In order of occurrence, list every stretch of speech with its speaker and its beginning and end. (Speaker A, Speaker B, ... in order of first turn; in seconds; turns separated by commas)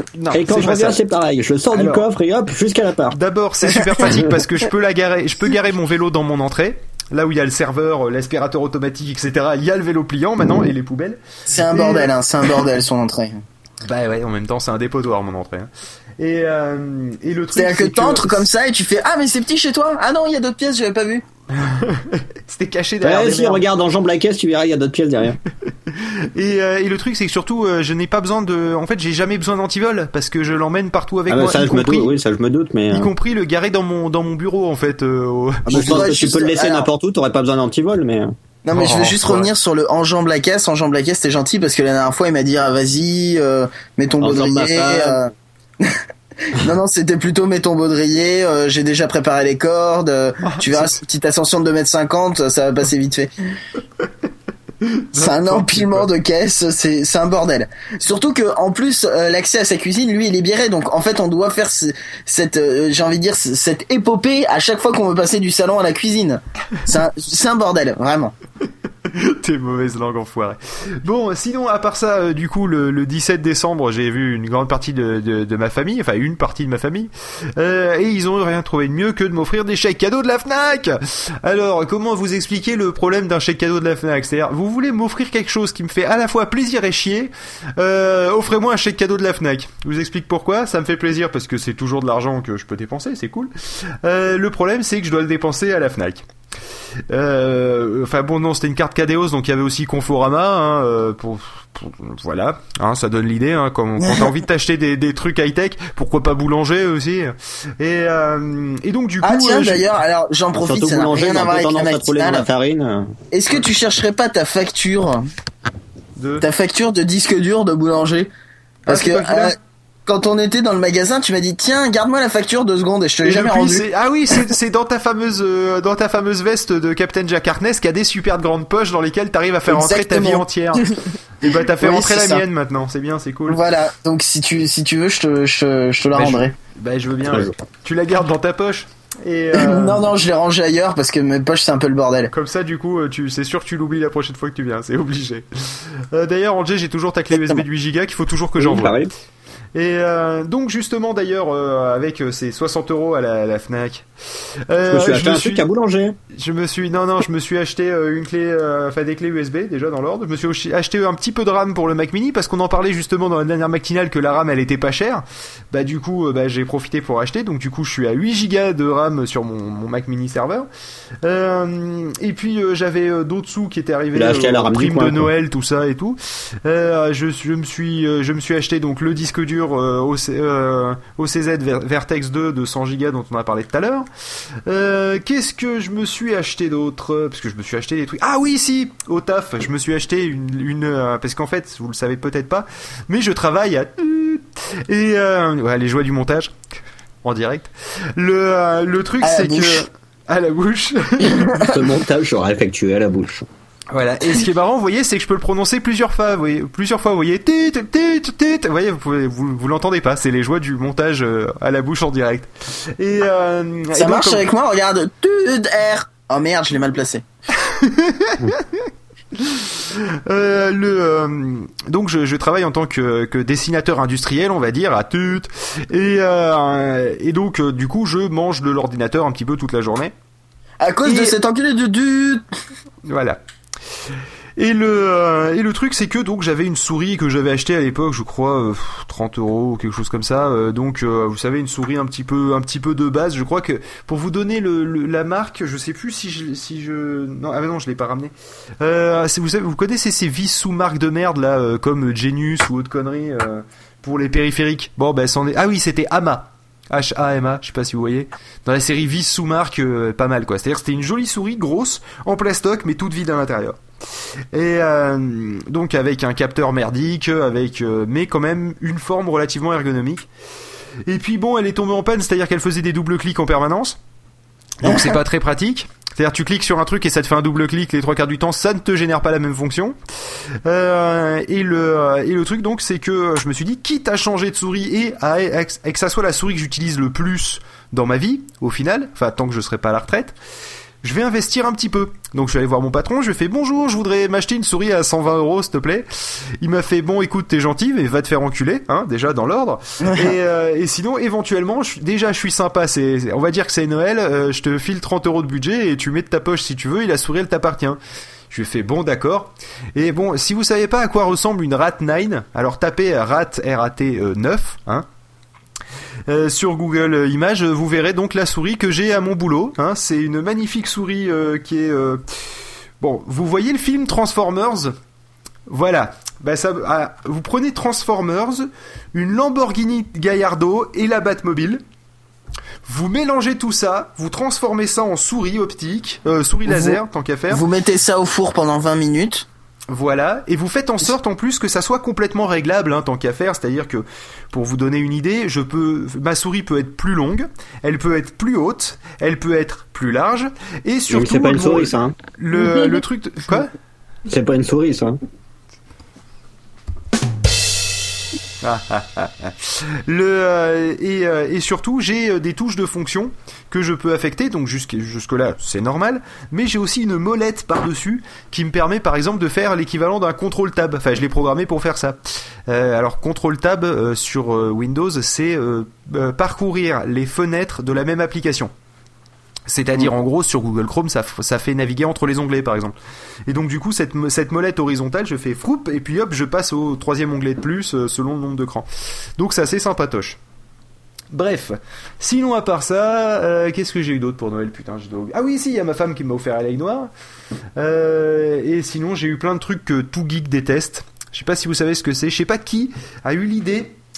Speaker A: 0.1-1.0, Speaker B: 0.3-3.2, Speaker A: 1.7-2.0, Speaker A: 3.1-12.1, Speaker C: 11.5-13.4, Speaker A: 13.8-18.4, Speaker C: 17.5-21.2, Speaker A: 21.6-23.6, Speaker B: 23.0-25.4, Speaker A: 25.9-32.1, Speaker B: 31.3-33.1, Speaker A: 32.9-36.1, Speaker C: 35.6-36.9, Speaker B: 35.7-38.3, Speaker C: 38.6-45.3, Speaker A: 38.7-39.4, Speaker B: 44.2-45.2, Speaker C: 45.8-53.3, Speaker A: 50.4-51.0, Speaker A: 54.8-56.1, Speaker C: 55.1-68.3, Speaker A: 69.1-96.2, Speaker A: 97.1-109.9, Speaker C: 104.0-104.3, Speaker C: 109.2-112.5, Speaker B: 110.5-113.1, Speaker C: 113.3-115.3, Speaker A: 116.2-116.5, Speaker C: 116.4-118.3, Speaker A: 118.8-119.5, Speaker C: 118.9-123.8, Speaker A: 123.2-130.9, Speaker C: 129.7-130.9, Speaker A: 131.4-133.6, Speaker C: 131.8-132.4, Speaker C: 133.5-136.5, Speaker A: 136.1-140.1, Speaker C: 139.5-142.3, Speaker A: 142.3-149.0, Speaker C: 147.3-147.6, Speaker B: 148.6-149.1, Speaker A: 149.7-154.1, Speaker A: 154.7-155.6, Speaker B: 154.9-156.2, Speaker A: 156.3-170.7, Speaker A: 171.2-184.1, Speaker B: 174.1-175.3, Speaker A: 184.7-196.5, Speaker A: 197.2-201.7, Speaker C: 199.2-199.8, Speaker B: 201.6-203.5, Speaker A: 203.9-214.4, Speaker C: 213.9-217.2, Speaker A: 217.6-230.1, Speaker C: 230.8-232.4, Speaker A: 231.0-231.3, Speaker A: 233.0-233.4, Speaker A: 234.6-263.8, Speaker A: 264.5-270.3, Speaker A: 271.1-274.0, Speaker A: 274.8-279.9, Speaker A: 280.6-290.3, Speaker A: 291.0-296.1, Speaker A: 296.6-308.0, Speaker A: 308.5-315.1, Speaker A: 316.3-322.2, Speaker A: 323.0-324.9, Speaker A: 325.7-331.8, Speaker A: 332.9-337.6, Speaker C: 336.6-337.0, Speaker C: 337.5-339.4, Speaker A: 339.9-353.7, Speaker B: 351.1-352.1, Speaker B: 354.3-355.2, Speaker A: 358.6-378.7, Speaker A: 379.7-382.9, Speaker A: 383.5-388.9, Speaker A: 389.4-390.4, Speaker A: 391.3-397.1, Speaker A: 397.8-403.9